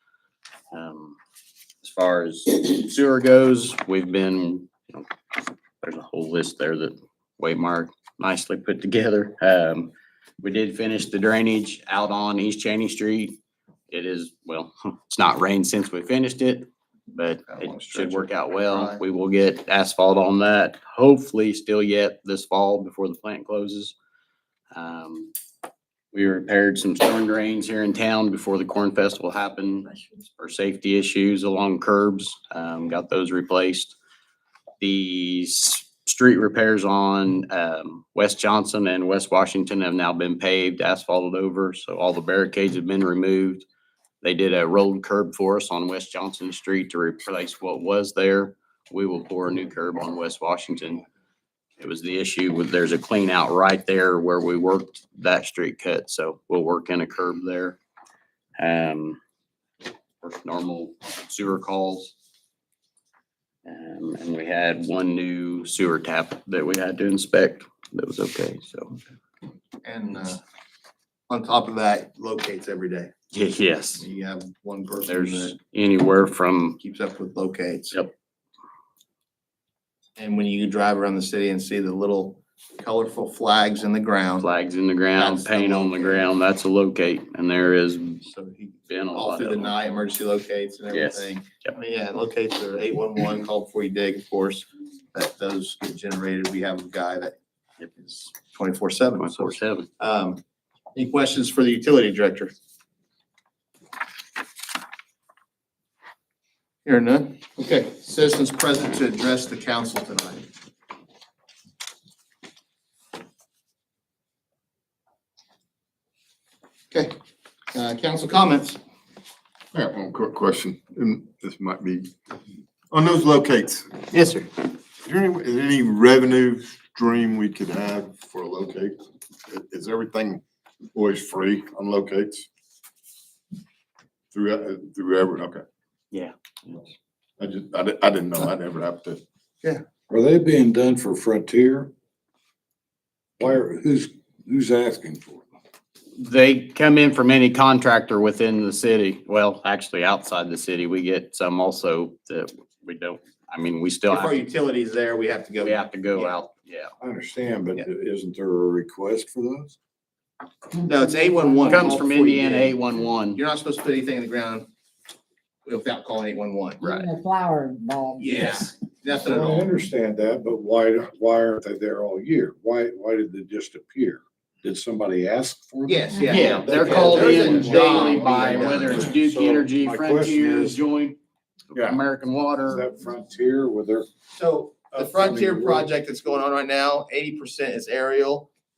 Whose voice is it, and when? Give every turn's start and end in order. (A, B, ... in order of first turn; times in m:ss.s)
0:00.7-0:01.2 A
0:01.8-0:05.1 A
0:05.8-0:09.9 A
0:10.4-0:23.9 A
0:17.5-0:19.0 B
0:24.7-0:25.3 A
0:26.1-0:33.9 A
0:34.8-0:43.6 A
0:44.2-0:51.0 A
0:51.8-0:57.8 A
0:58.6-0:59.2 A
1:00.2-1:02.1 A
1:03.6-1:09.0 A
1:09.8-1:10.4 B
1:11.3-1:13.1 B
1:13.3-1:14.0 A
1:14.0-1:15.6 B
1:15.1-1:16.8 A
1:16.8-1:18.0 B
1:20.2-1:24.5 B
1:24.4-1:28.2 A
1:25.1-1:26.3 B
1:28.2-1:37.3 B
1:28.9-1:29.7 A
1:30.9-1:31.3 A
1:37.9-1:40.4 B
1:39.2-1:39.9 A
1:40.9-1:42.5 B
1:46.8-1:50.5 B
1:57.7-1:58.8 B
1:59.7-2:02.1 C
2:02.9-2:04.0 C
2:04.1-2:04.5 B
2:05.0-2:10.4 C
2:10.9-2:12.5 C
2:14.3-2:15.6 C
2:16.1-2:16.9 A
2:17.4-2:19.2 C
2:20.1-2:21.9 D
2:23.4-2:25.5 D
2:26.2-2:34.4 A
2:34.1-2:36.4 B
2:35.6-2:36.9 A
2:37.0-2:39.8 D
2:40.8-2:42.8 B
2:40.9-2:41.9 E
2:41.6-2:43.4 A
2:43.3-2:44.7 B
2:45.6-2:46.9 B
2:46.8-2:47.1 A
2:46.8-2:48.6 E
2:48.2-2:49.7 B
2:49.2-3:00.8 D
2:55.8-2:59.1 B
2:56.3-3:01.2 A
3:01.7-3:02.8 A
3:01.7-3:02.0 D
3:02.7-3:04.1 D
3:04.3-3:08.5 B
3:04.9-3:05.9 D